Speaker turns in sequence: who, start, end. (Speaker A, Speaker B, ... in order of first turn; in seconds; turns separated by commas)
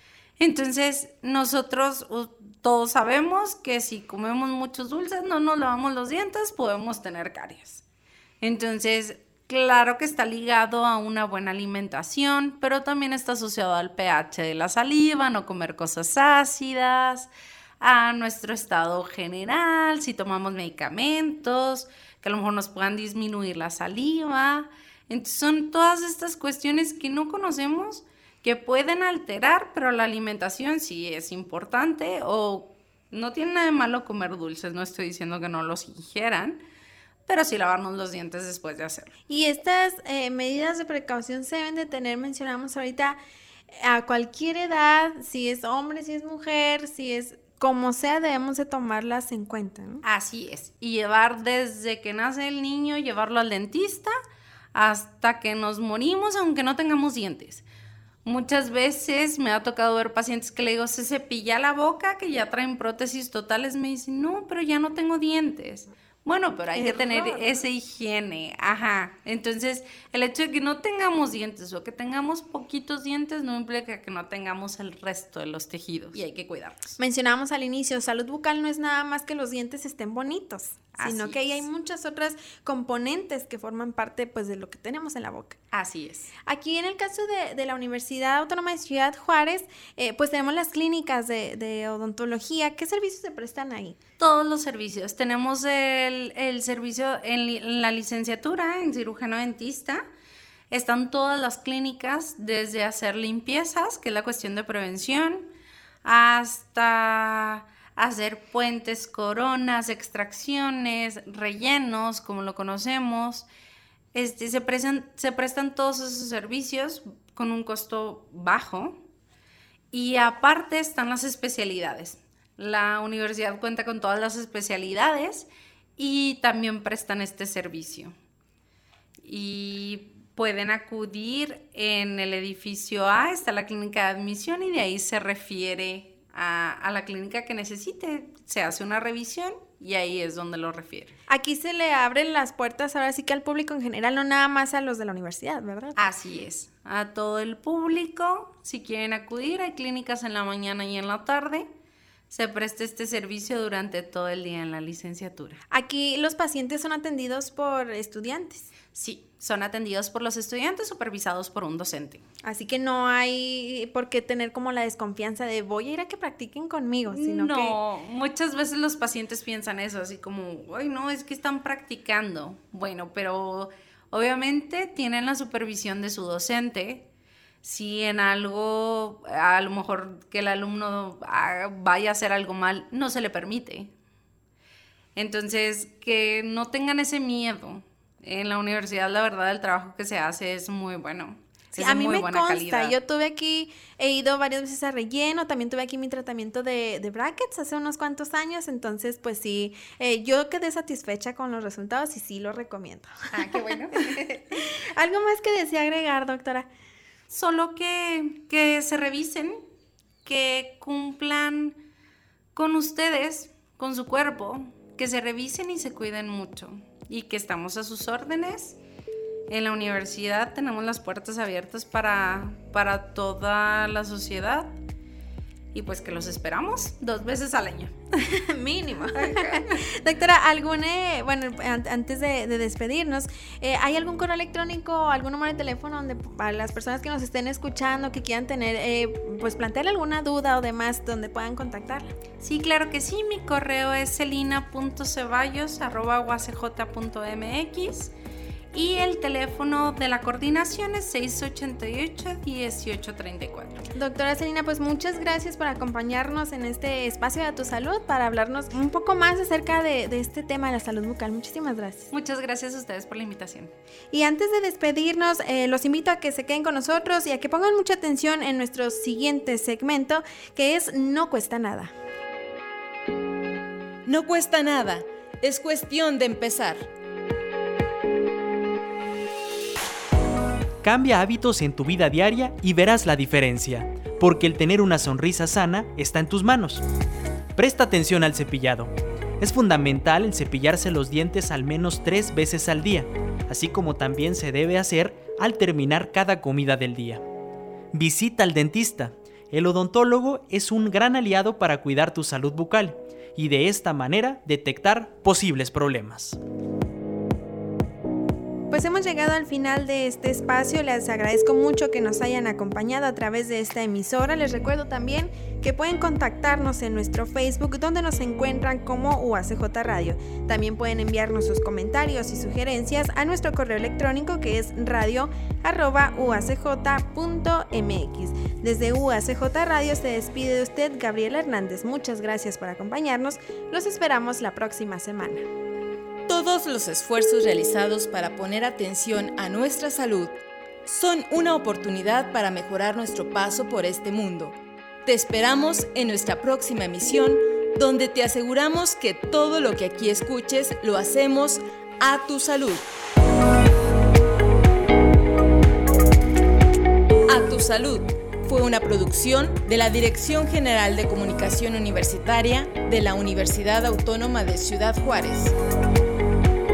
Speaker A: 0.4-7.8, Speaker A: 8.4-36.6, Speaker A: 37.3-39.1, Speaker B: 39.3-43.2, Speaker B: 43.7-50.0, Speaker A: 50.0-54.1, Speaker A: 54.7-57.6, Speaker A: 58.2-77.0, Speaker B: 66.7-67.6, Speaker B: 77.0-85.6, Speaker A: 81.0-81.6, Speaker A: 85.7-86.3, Speaker B: 86.5-94.0, Speaker A: 94.2-100.0, Speaker A: 100.7-105.5, Speaker A: 106.0-113.5, Speaker A: 114.1-119.0, Speaker A: 119.9-128.1, Speaker A: 129.2-141.2, Speaker B: 141.3-146.0, Speaker A: 146.0-151.7, Speaker A: 152.3-155.6, Speaker B: 155.7-158.7, Speaker A: 158.9-162.2, Speaker B: 162.4-167.8, Speaker A: 167.1-177.1, Speaker A: 177.6-183.9, Speaker A: 185.2-192.9, Speaker B: 191.7-206.7, Speaker A: 203.3-204.2, Speaker A: 207.3-209.6, Speaker A: 210.2-211.8, Speaker A: 212.5-218.8, Speaker A: 219.5-224.8, Speaker A: 225.7-227.9, Speaker B: 228.1-242.1, Speaker A: 229.1-229.8, Speaker A: 242.4-248.1, Speaker A: 248.7-253.8, Speaker B: 253.9-262.1, Speaker A: 262.1-263.7, Speaker B: 264.1-271.9, Speaker C: 274.1-276.9, Speaker D: 280.8-286.8, Speaker D: 287.6-297.2, Speaker D: 297.9-306.4, Speaker B: 308.7-335.4, Speaker C: 336.3-340.3, Speaker C: 340.9-352.9, Speaker C: 357.3-365.5